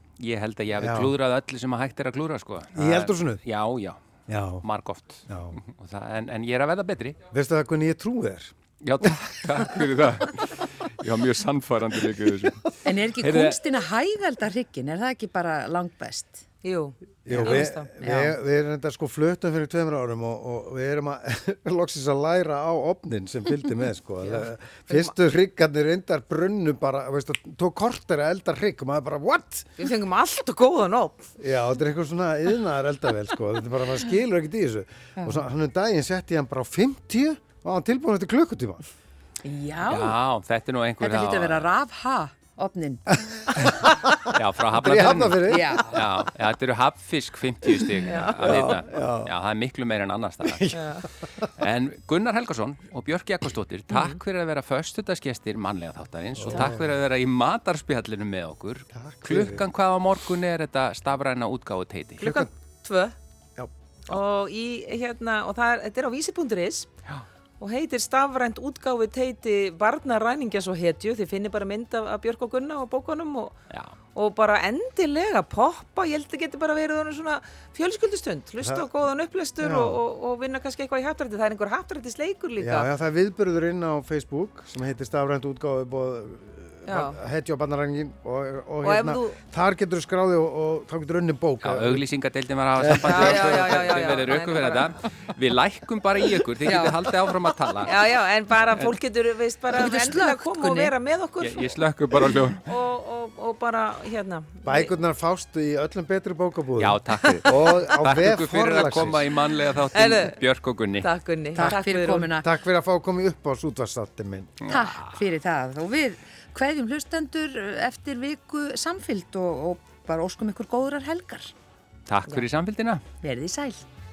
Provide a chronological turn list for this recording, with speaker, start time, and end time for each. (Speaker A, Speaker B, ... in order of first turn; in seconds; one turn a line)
Speaker A: 0.2-4.0
Speaker B: 0.8-1.1
Speaker B: 2.7-3.4
Speaker B: 4.3-4.7
Speaker A: 4.6-7.2
Speaker B: 5.3-5.6
Speaker B: 7.3-8.5
Speaker A: 8.8-13.6
Speaker C: 12.8-16.4
Speaker D: 16.6-17.9
Speaker B: 17.2-29.7
Speaker C: 18.0-18.3
Speaker D: 24.2-25.1
Speaker D: 29.8-31.3
Speaker B: 31.4-38.8
Speaker C: 39.4-40.2
Speaker A: 39.9-41.7
Speaker C: 41.0-43.1
Speaker B: 43.6-45.8
Speaker A: 44.2-50.7
Speaker C: 45.5-46.1
Speaker D: 48.0-48.8
Speaker B: 48.4-49.3
Speaker B: 50.4-50.8
Speaker D: 50.7-51.1
Speaker A: 51.6-62.3
Speaker D: 53.9-54.2
Speaker B: 56.4-56.9
Speaker B: 58.9-59.6
Speaker D: 62.2-63.1
Speaker B: 62.2-62.5
Speaker D: 64.1-66.9
Speaker D: 67.6-73.5
Speaker A: 73.7-74.0
Speaker D: 74.1-82.9
Speaker B: 78.6-78.9
Speaker B: 79.6-80.0
Speaker B: 82.6-92.0
Speaker D: 86.9-87.2
Speaker D: 88.8-89.4
Speaker A: 91.6-98.0
Speaker B: 92.8-93.2
Speaker D: 93.0-94.9
Speaker C: 96.6-96.9
Speaker D: 97.8-101.7
Speaker C: 99.7-100.9
Speaker A: 101.4-102.7
Speaker D: 102.6-104.9
Speaker B: 104.6-109.2
Speaker A: 106.8-111.1
Speaker D: 109.9-110.4
Speaker D: 111.0-112.3
Speaker C: 111.5-112.4
Speaker B: 112.4-114.6
Speaker A: 114.6-115.2
Speaker C: 114.7-121.5
Speaker A: 122.1-123.0
Speaker C: 123.2-123.8